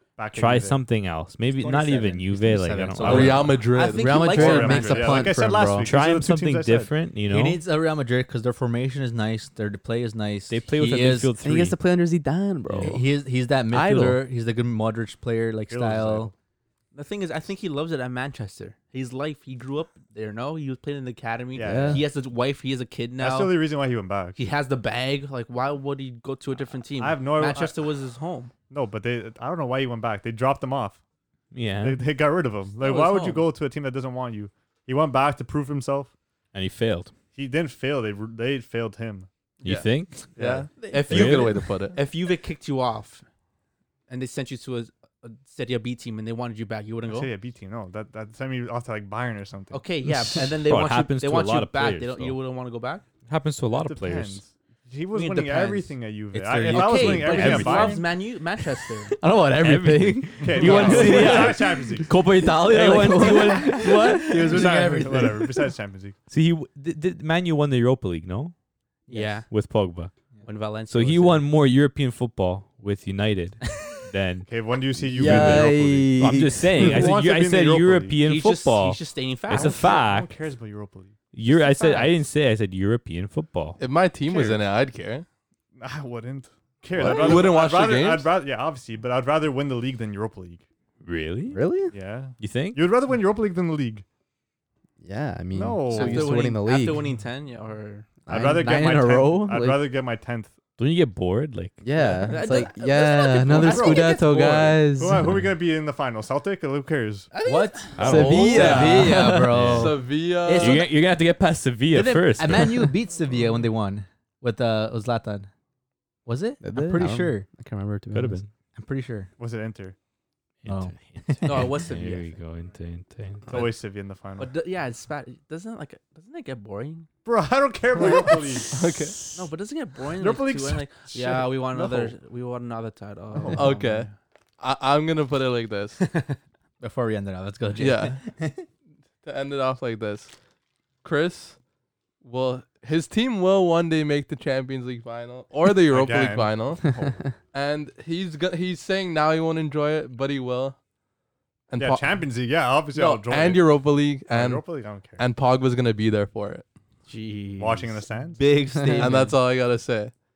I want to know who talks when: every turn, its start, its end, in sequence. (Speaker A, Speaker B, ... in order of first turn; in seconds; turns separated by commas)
Speaker A: 0.2-0.8, Speaker B: 0.3-3.6, Speaker C: 1.6-3.6, Speaker D: 3.0-5.3, Speaker E: 3.0-4.4, Speaker F: 4.0-5.9, Speaker A: 4.3-6.9, Speaker B: 5.8-7.6, Speaker C: 7.3-11.4, Speaker B: 10.5-11.8, Speaker F: 11.4-13.1, Speaker B: 12.7-13.0, Speaker C: 12.8-16.3, Speaker F: 13.7-14.2, Speaker A: 15.7-16.3, Speaker D: 16.9-23.6, Speaker A: 21.5-22.1, Speaker F: 21.6-22.0, Speaker A: 23.2-24.4, Speaker D: 24.4-28.5, Speaker A: 27.0-27.8, Speaker A: 28.7-31.0, Speaker B: 31.5-32.0, Speaker A: 31.8-36.1, Speaker D: 32.8-33.5, Speaker B: 36.5-37.1, Speaker A: 37.4-39.3, Speaker B: 39.6-40.3, Speaker E: 39.6-42.0, Speaker A: 40.4-40.7, Speaker D: 40.7-43.2, Speaker B: 41.1-41.7, Speaker D: 44.1-47.3, Speaker A: 47.1-49.8, Speaker D: 49.7-53.0, Speaker B: 50.1-52.4, Speaker B: 53.3-54.4, Speaker A: 53.7-58.1, Speaker D: 55.1-55.9, Speaker C: 56.3-58.0, Speaker D: 56.7-59.2, Speaker B: 57.1-58.0, Speaker F: 59.1-64.6, Speaker B: 59.6-61.9, Speaker A: 60.4-62.1, Speaker D: 60.6-61.6, Speaker D: 62.1-65.5, Speaker A: 64.3-66.2, Speaker B: 66.3-68.5, Speaker D: 69.1-69.5, Speaker C: 69.1-69.4, Speaker B: 69.5-70.1, Speaker D: 70.4-71.5, Speaker B: 70.9-74.5, Speaker A: 74.5-78.2, Speaker B: 75.1-80.3, Speaker F: 75.1-77.1, Speaker D: 78.2-80.0, Speaker A: 79.6-81.3, Speaker B: 81.3-83.8, Speaker D: 81.6-82.1, Speaker E: 83.8-85.2, Speaker A: 84.3-84.6, Speaker A: 85.8-90.6, Speaker D: 87.0-87.4, Speaker B: 87.0-87.5, Speaker E: 87.0-88.3, Speaker B: 91.0-91.6, Speaker F: 91.5-91.9, Speaker A: 91.9-94.0, Speaker B: 92.4-92.8, Speaker F: 95.0-97.1, Speaker A: 95.5-96.5, Speaker D: 95.9-99.3, Speaker F: 98.3-99.9, Speaker A: 98.3-100.5, Speaker B: 100.8-101.8, Speaker F: 101.8-105.3, Speaker D: 102.0-104.9, Speaker A: 103.5-104.1, Speaker A: 105.0-107.3, Speaker B: 105.2-105.5, Speaker D: 107.3-108.3, Speaker C: 107.4-110.9, Speaker B: 107.9-112.9, Speaker F: 108.0-109.5, Speaker E: 108.0-109.1, Speaker E: 109.7-110.8, Speaker C: 111.9-115.5, Speaker C: 116.3-117.5, Speaker F: 116.6-118.4, Speaker B: 118.1-118.5, Speaker C: 118.8-119.3, Speaker A: 119.4-120.0, Speaker B: 120.6-123.6, Speaker C: 120.7-121.7, Speaker D: 121.5-122.4, Speaker A: 123.5-124.5, Speaker D: 124.4-127.1, Speaker A: 127.2-128.8, Speaker D: 128.0-128.3, Speaker E: 128.7-129.2, Speaker D: 129.3-133.9, Speaker A: 130.2-132.2, Speaker A: 133.3-134.1, Speaker E: 133.5-136.0, Speaker C: 136.8-138.7, Speaker E: 137.8-138.2, Speaker E: 139.2-140.3, Speaker E: 141.0-141.6, Speaker E: 142.2-146.8, Speaker A: 145.9-147.2, Speaker E: 147.5-150.8, Speaker E: 151.7-152.3, Speaker A: 151.8-155.2, Speaker E: 152.9-156.7, Speaker D: 157.1-159.3, Speaker A: 157.6-158.4, Speaker F: 158.8-159.2, Speaker E: 159.0-160.1